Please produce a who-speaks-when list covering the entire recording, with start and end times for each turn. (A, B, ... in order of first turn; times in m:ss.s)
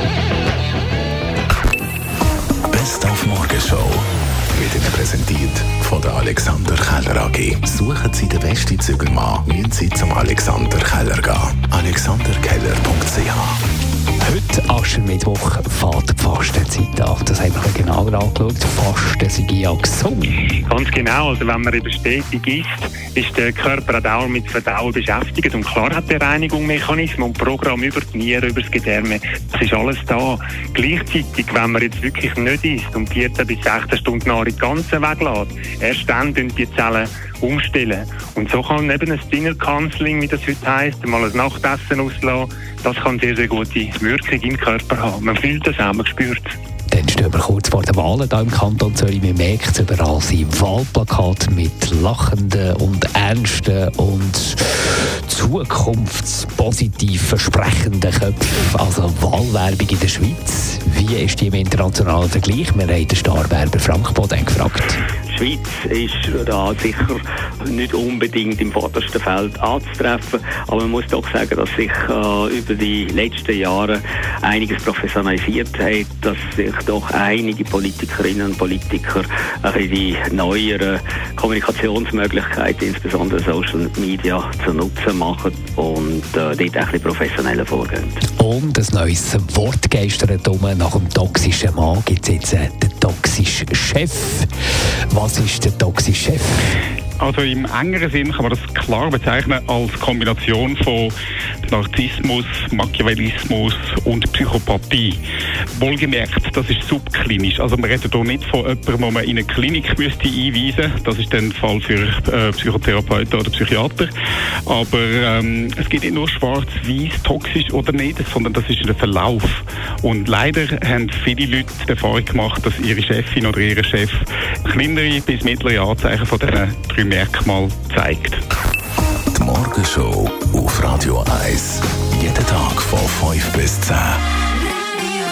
0:02.7-0:13.6 A
0:14.2-0:20.4 B
0:20.6-0:46.6 C
0:46.9-1:05.0 B
1:05.3-1:28.2 D
1:28.4-1:34.5 B
1:35.1-1:36.7 B
1:37.2-1:41.1 E
1:41.7-1:45.2 E
1:45.8-1:54.1 E
1:54.7-2:08.4 E
2:09.3-2:14.2 A